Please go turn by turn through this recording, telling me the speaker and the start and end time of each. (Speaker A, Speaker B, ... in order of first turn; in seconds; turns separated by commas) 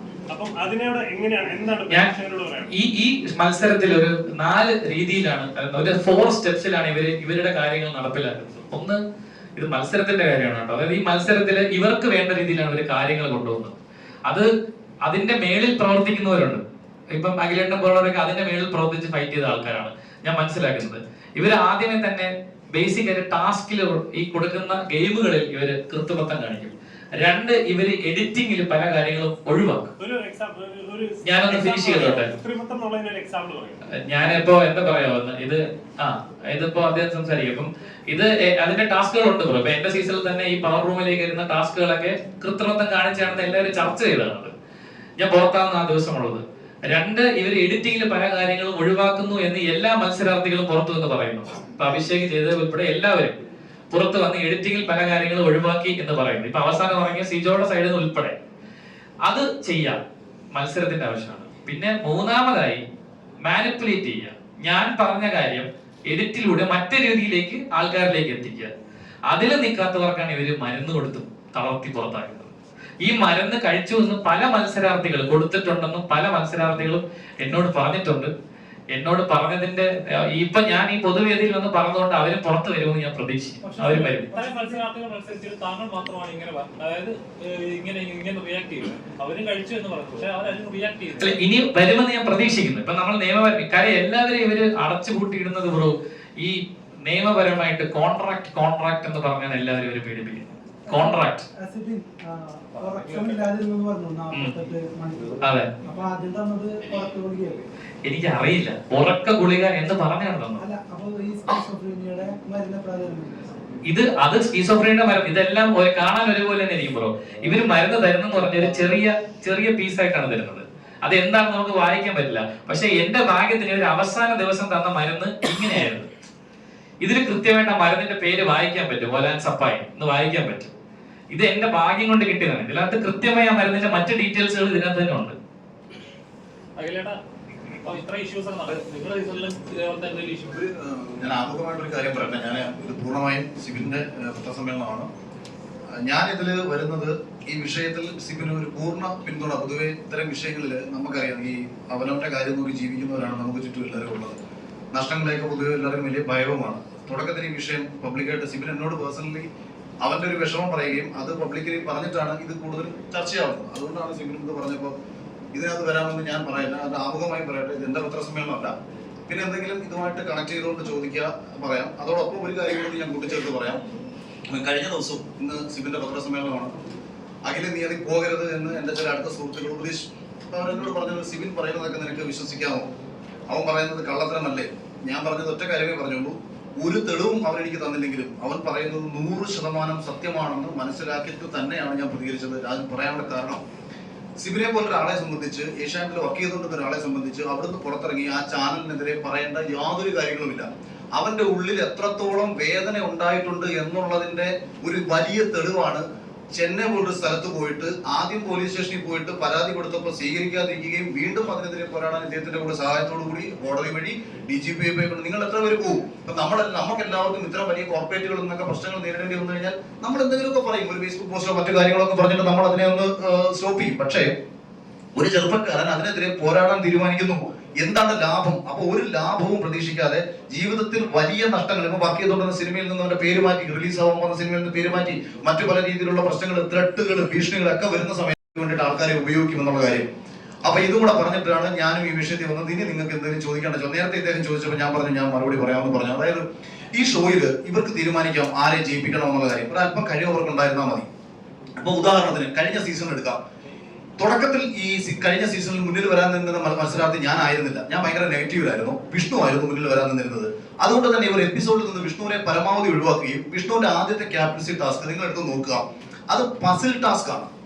Speaker A: 0.3-2.7, Speaker B: 2.7-9.0, Speaker B: 9.6-13.8, Speaker B: 15.1-16.6, Speaker B: 17.1-29.9, Speaker A: 30.0-33.8, Speaker B: 31.2-32.3, Speaker B: 34.1-44.5, Speaker B: 45.2-53.4, Speaker B: 53.9-58.4, Speaker B: 59.2-60.0, Speaker B: 60.5-62.8, Speaker B: 63.5-68.7, Speaker B: 69.3-78.3, Speaker B: 78.9-84.3, Speaker C: 83.6-84.8, Speaker D: 83.8-91.4, Speaker B: 91.2-101.5, Speaker C: 100.9-107.7, Speaker B: 105.4-105.7, Speaker B: 108.0-110.7, Speaker C: 110.6-113.5, Speaker B: 113.9-126.1, Speaker B: 127.0-130.7, Speaker B: 131.3-135.3, Speaker D: 136.8-137.2, Speaker D: 137.8-140.7, Speaker E: 140.8-145.1, Speaker E: 146.0-154.4, Speaker E: 154.9-159.5, Speaker E: 160.0-164.9, Speaker E: 165.5-168.7, Speaker E: 169.3-173.8, Speaker E: 174.5-176.7, Speaker E: 177.4-182.9, Speaker E: 183.5-193.6, Speaker E: 194.4-206.0, Speaker E: 206.5-224.3, Speaker E: 225.2-240.1, Speaker E: 240.6-251.1, Speaker E: 251.8-253.4, Speaker E: 254.2-267.5